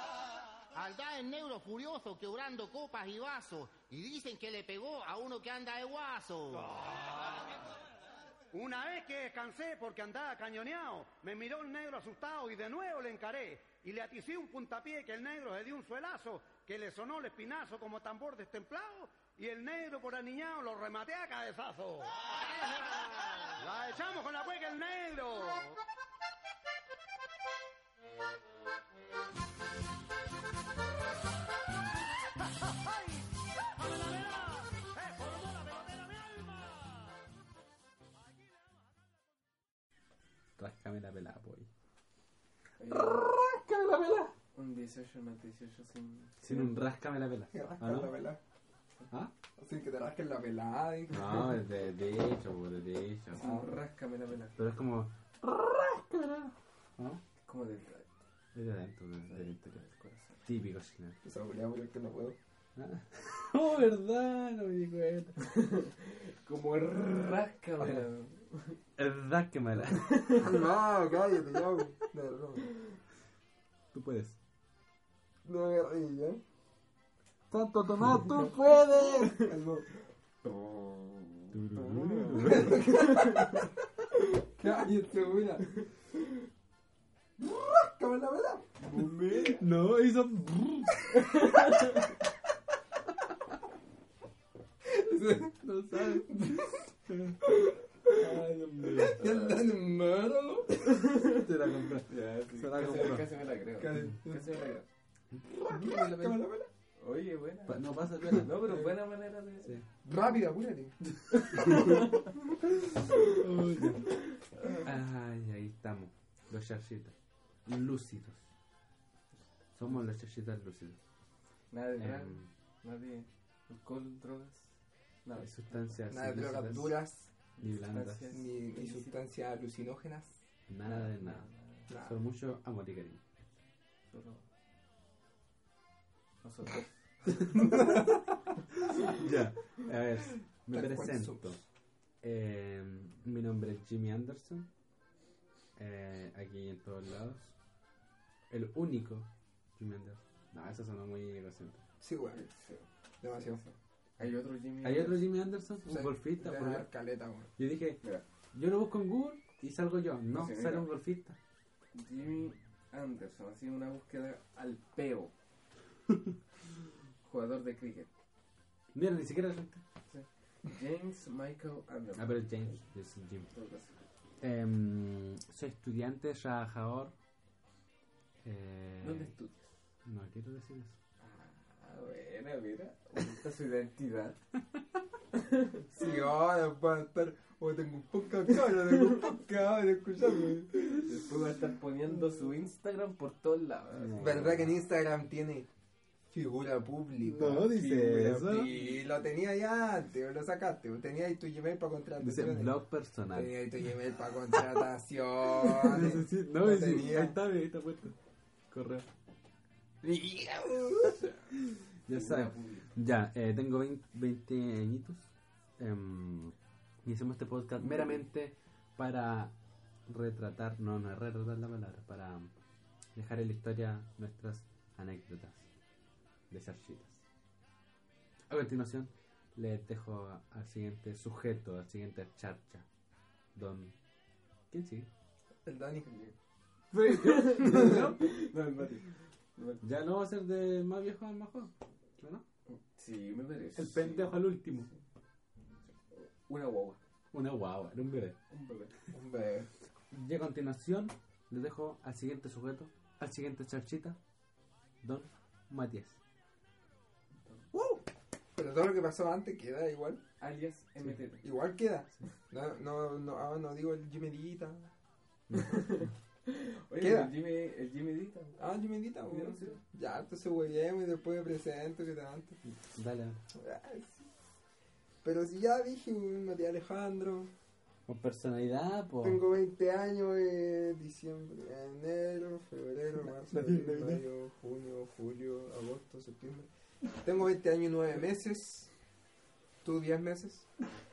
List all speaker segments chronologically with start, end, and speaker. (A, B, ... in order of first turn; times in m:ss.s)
0:00.7-0:06.8 A
0:07.0-0:07.4 B
0:08.5-0:25.8 B
0:32.6-0:37.0 B
0:40.6-0:41.7 C
0:42.8-0:43.3 D
0:42.9-0:44.3 E
0:44.6-0:46.7 D
0:46.4-0:48.1 C
0:47.5-0:48.4 E
0:49.1-0:49.4 C
0:49.6-0:51.6 E
0:51.1-0:53.6 C
0:53.3-0:54.6 D
0:54.6-0:57.2 C
0:57.4-0:58.1 D
0:58.5-0:59.8 C
0:59.3-1:00.4 D
1:00.4-1:01.2 C
1:01.2-1:02.4 E
1:02.8-1:05.4 C
1:05.4-1:08.8 D
1:09.0-1:10.6 C
1:09.8-1:10.5 D
1:10.4-1:12.8 E
1:13.9-1:14.4 C
1:15.4-1:16.4 E
1:17.5-1:19.4 C
1:19.4-1:19.9 E
1:20.4-1:23.6 D
1:21.5-1:22.9 C
1:22.4-1:26.1 E
1:27.4-1:29.6 E
1:28.8-1:29.6 D
1:29.6-1:31.7 C
1:31.6-1:31.9 D
1:34.8-1:36.8 E
1:35.6-1:39.2 C
1:37.4-1:38.2 E
1:39.0-1:41.1 E
1:39.2-1:39.7 D
1:40.9-1:41.5 D
1:41.4-1:43.3 C
1:42.1-1:44.9 D
1:43.8-1:44.8 E
1:45.6-1:46.7 E
1:45.7-1:46.4 D
1:47.0-1:49.8 D
1:47.7-1:48.6 C
1:50.0-1:52.2 E
1:51.5-1:52.0 C
1:53.2-1:54.2 C
1:54.5-1:54.8 D
1:54.8-1:57.1 C
1:57.7-1:58.5 C
1:59.4-2:00.0 D
1:59.8-2:01.0 C
2:01.7-2:04.7 D
2:02.0-2:02.5 C
2:05.2-2:06.0 D
2:05.4-2:07.1 C
2:06.1-2:07.3 E
2:07.6-2:08.4 C
2:07.6-2:09.1 D
2:08.3-2:10.4 E
2:10.7-2:13.3 C
2:10.8-2:11.9 D
2:11.9-2:12.2 E
2:14.1-2:14.4 D
2:16.4-2:17.7 D
2:17.6-2:18.2 E
2:19.0-2:21.6 C
2:20.7-2:21.6 E
2:22.2-2:24.7 C
2:25.8-2:27.6 C
2:28.5-2:31.8 C
2:32.0-2:32.4 E
2:32.3-2:35.4 D
2:33.2-2:33.6 E
2:34.8-2:36.9 C
2:35.8-2:37.5 E
2:37.6-2:41.4 C
2:40.3-2:40.9 D
2:41.9-2:45.3 D
2:47.2-2:48.1 D
2:48.9-2:49.8 C
2:50.1-2:52.7 D
2:52.2-2:53.5 C
2:53.5-2:54.0 D
2:54.4-2:57.2 C
2:58.4-2:59.4 C
2:59.0-2:59.7 D
3:00.0-3:01.0 C
3:01.2-3:04.4 D
3:05.3-3:05.9 D
3:05.9-3:11.0 E
3:11.0-3:14.7 D
3:14.0-3:14.6 C
3:14.2-3:15.7 E
3:16.3-3:22.8 E
3:17.2-3:18.7 C
3:18.5-3:19.1 D
3:22.2-3:23.6 C
3:23.3-3:27.4 E
3:25.6-3:28.2 C
3:28.7-3:29.1 C
3:30.0-3:31.3 E
3:32.1-3:39.6 C
3:32.1-3:33.0 D
3:40.1-3:42.5 C
3:43.2-3:45.7 C
3:46.5-3:47.2 C
3:48.5-3:52.9 C
3:53.6-3:54.0 C
3:54.7-3:55.1 C
3:55.6-3:56.2 E
3:56.1-3:56.3 D
3:56.9-3:58.4 C
3:57.1-3:59.8 D
3:57.6-3:58.1 E
3:59.8-4:02.4 C
4:02.7-4:04.4 D
4:03.8-4:04.9 C
4:06.0-4:07.0 D
4:07.3-4:08.4 C
4:08.5-4:09.0 D
4:09.1-4:09.7 E
4:10.1-4:14.2 C
4:15.0-4:16.2 C
4:17.7-4:20.2 E
4:20.4-4:21.5 D
4:21.4-4:24.9 E
4:25.5-4:25.8 C
4:25.7-4:28.6 D
4:27.0-4:27.4 E
4:28.6-4:32.6 E
4:29.3-4:29.8 D
4:32.7-4:33.4 C
4:33.5-4:34.3 E
4:35.2-4:37.5 E
4:38.1-4:39.4 C
4:39.2-4:48.9 E
4:43.5-4:44.2 C
4:49.8-4:50.7 E